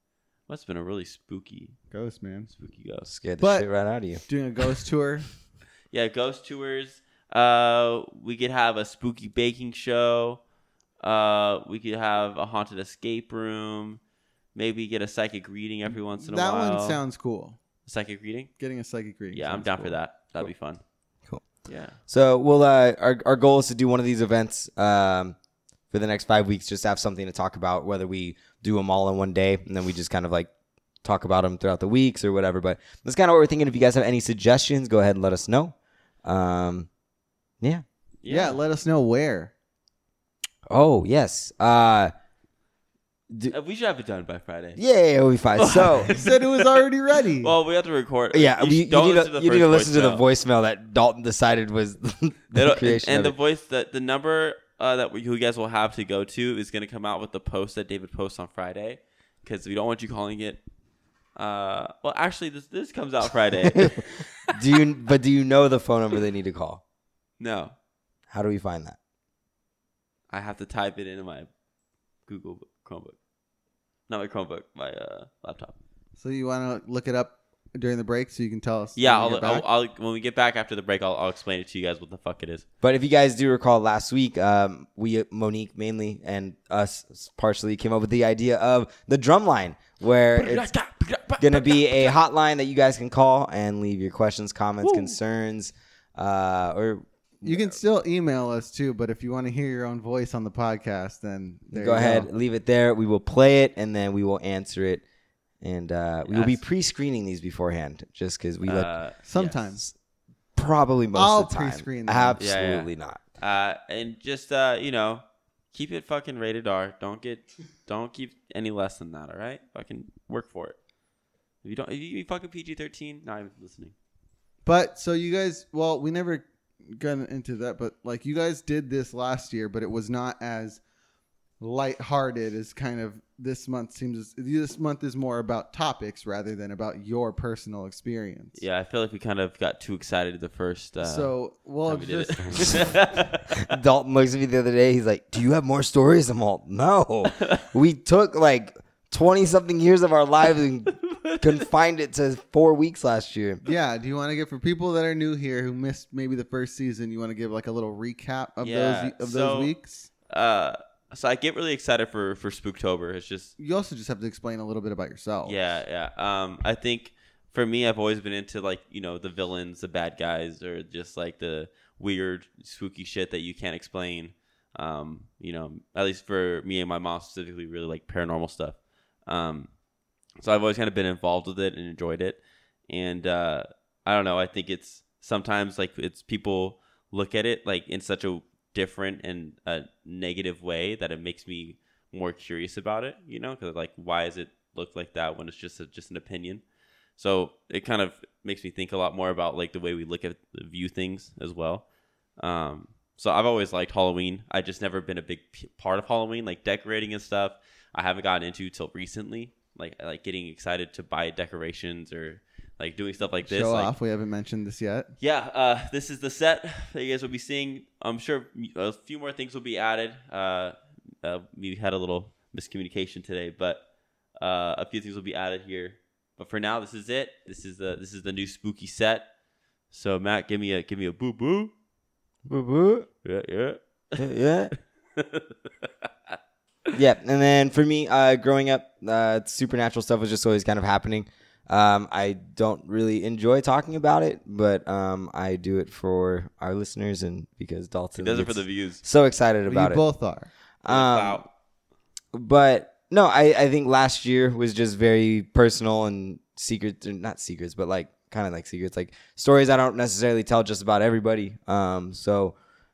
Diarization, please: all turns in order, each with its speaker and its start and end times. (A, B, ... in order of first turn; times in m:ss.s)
0:00.5-0:01.8 A
0:01.9-0:02.5 B
0:02.5-0:03.1 A
0:03.1-0:04.2 C
0:03.4-0:03.7 B
0:04.2-0:05.3 B
0:05.9-0:10.4 A
0:11.0-0:14.0 A
0:14.6-0:17.0 A
0:16.2-0:17.6 B
0:17.8-0:18.5 A
0:18.6-0:20.0 B
0:19.3-0:20.8 A
0:21.7-0:22.0 A
0:22.1-0:25.4 C
0:25.9-0:30.5 C
0:31.0-0:36.9 C
0:38.2-0:38.6 A
0:38.3-0:39.5 B
0:40.7-0:42.1 C
0:43.5-0:44.8 A
0:44.8-0:46.1 C
0:45.6-0:46.9 A
0:46.1-0:47.6 B
0:47.4-0:50.2 A
0:48.3-0:53.4 C
0:52.5-1:00.6 A
1:01.4-1:04.6 A
1:03.7-1:06.8 C
1:07.4-1:07.8 A
1:08.3-1:09.0 C
1:10.3-1:11.5 A
1:12.3-1:13.2 A
1:14.1-1:15.8 A
1:16.2-1:19.6 B
1:19.0-1:22.6 A
1:22.8-1:30.7 C
1:30.4-1:32.2 A
1:31.4-1:37.7 C
1:34.8-1:35.2 A
1:37.4-1:42.3 B
1:41.7-1:45.0 C
1:45.6-1:48.9 C
1:46.3-1:46.6 A
1:48.6-1:49.6 A
1:49.2-1:49.8 B
1:50.6-1:53.2 C
1:51.1-1:52.4 B
1:52.4-2:00.8 A
2:01.6-2:03.9 A
2:04.6-2:10.8 B
2:11.6-2:18.6 B
2:18.6-2:21.3 A
2:21.0-2:23.0 B
2:21.9-2:23.7 A
2:23.6-2:33.6 C
2:27.4-2:27.7 A
2:31.0-2:31.6 A
2:33.6-2:40.1 B
2:38.6-2:39.7 A
2:40.3-2:43.5 A
2:43.6-2:45.6 B
2:45.4-2:59.7 A
3:00.4-3:16.6 A
3:17.2-3:21.8 A
3:22.4-3:33.9 A
3:33.4-3:35.1 B
3:35.2-3:43.8 A
3:44.4-3:49.3 A
3:49.9-3:51.7 A
3:52.5-3:53.1 C
3:53.2-3:54.2 A
3:54.2-3:54.7 C
3:55.2-3:56.3 A
3:57.0-4:10.0 C
4:08.2-4:09.0 A
4:09.7-4:10.5 B
4:10.8-4:11.4 C
4:10.9-4:11.5 A
4:12.3-4:22.6 C